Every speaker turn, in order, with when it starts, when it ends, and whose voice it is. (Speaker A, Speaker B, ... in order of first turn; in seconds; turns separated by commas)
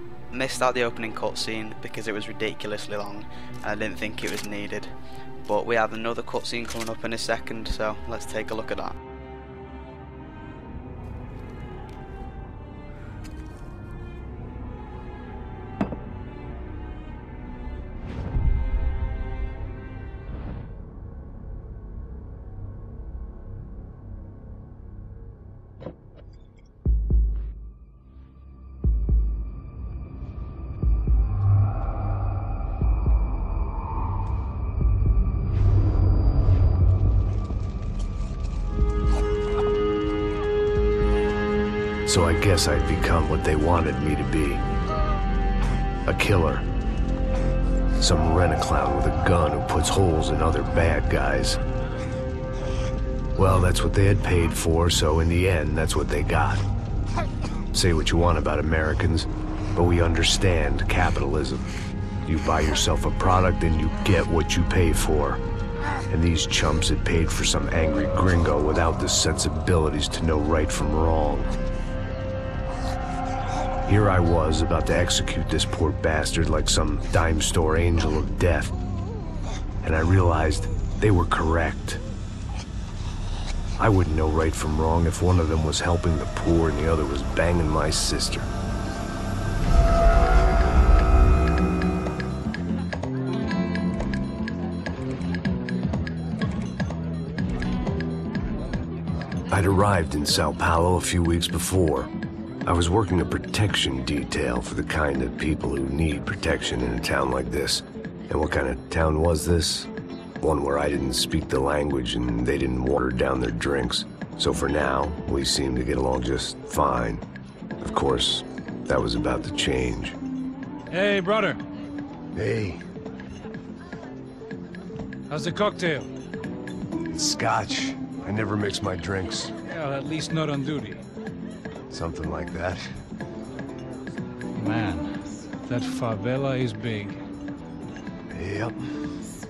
Speaker A: 0.3-4.9, Speaker A: 5.5-9.0, Speaker B: 42.1-44.6, Speaker B: 46.1-46.7, Speaker B: 48.0-51.6, Speaker B: 53.4-56.6, Speaker B: 57.7-61.7, Speaker B: 62.2-65.4, Speaker B: 66.1-71.5, Speaker B: 73.9-78.8, Speaker B: 79.8-82.0, Speaker B: 83.8-88.5, Speaker B: 99.5-102.1, Speaker B: 102.7-109.9, Speaker B: 110.4-117.2, Speaker B: 117.8-120.2, Speaker C: 120.9-121.6, Speaker B: 122.3-122.8, Speaker C: 125.3-126.1, Speaker B: 127.1-129.5, Speaker C: 129.7-131.0, Speaker B: 131.9-132.9, Speaker C: 134.6-137.2, Speaker B: 138.3-139.2